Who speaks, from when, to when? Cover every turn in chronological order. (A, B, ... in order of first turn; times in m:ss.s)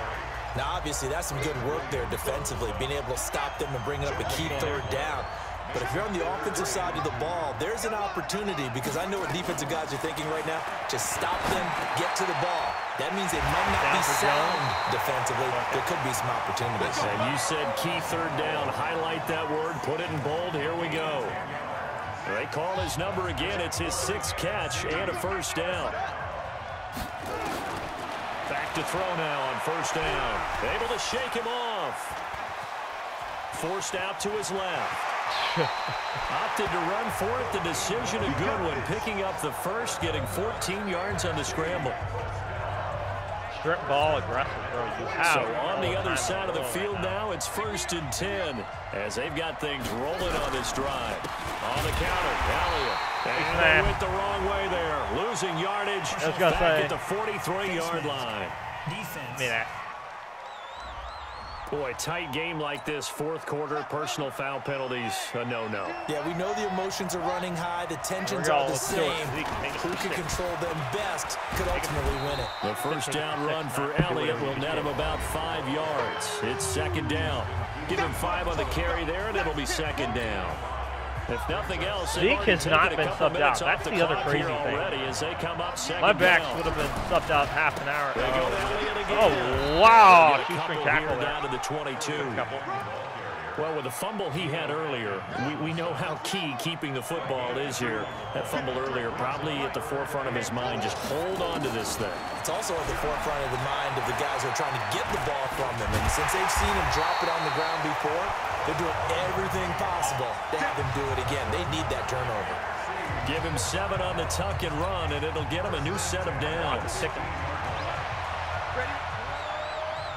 0:00.5-0:17.1 A
0:04.2-0:05.0 B
0:13.8-0:14.6 B
0:15.5-0:15.8 B
0:17.0-0:21.4 C
0:22.2-0:26.0 C
0:28.4-0:32.2 C
0:33.5-0:35.1 C
0:35.3-0:36.0 B
0:36.3-0:42.0 C
0:43.5-0:47.2 B
0:45.2-0:59.2 C
0:53.3-0:54.0 B
0:56.1-0:56.9 B
0:59.3-0:59.7 B
1:01.7-1:06.0 C
1:06.1-1:12.5 A
1:08.2-1:10.2 B
1:11.7-1:12.0 B
1:12.6-1:20.6 C
1:12.8-1:14.9 B
1:21.3-1:26.6 C
1:22.1-1:24.9 B
1:26.0-1:31.4 B
1:28.1-1:32.4 C
1:32.1-1:32.6 B
1:33.6-1:42.2 C
1:42.4-1:52.6 A
1:53.2-1:57.1 C
1:56.6-1:57.3 B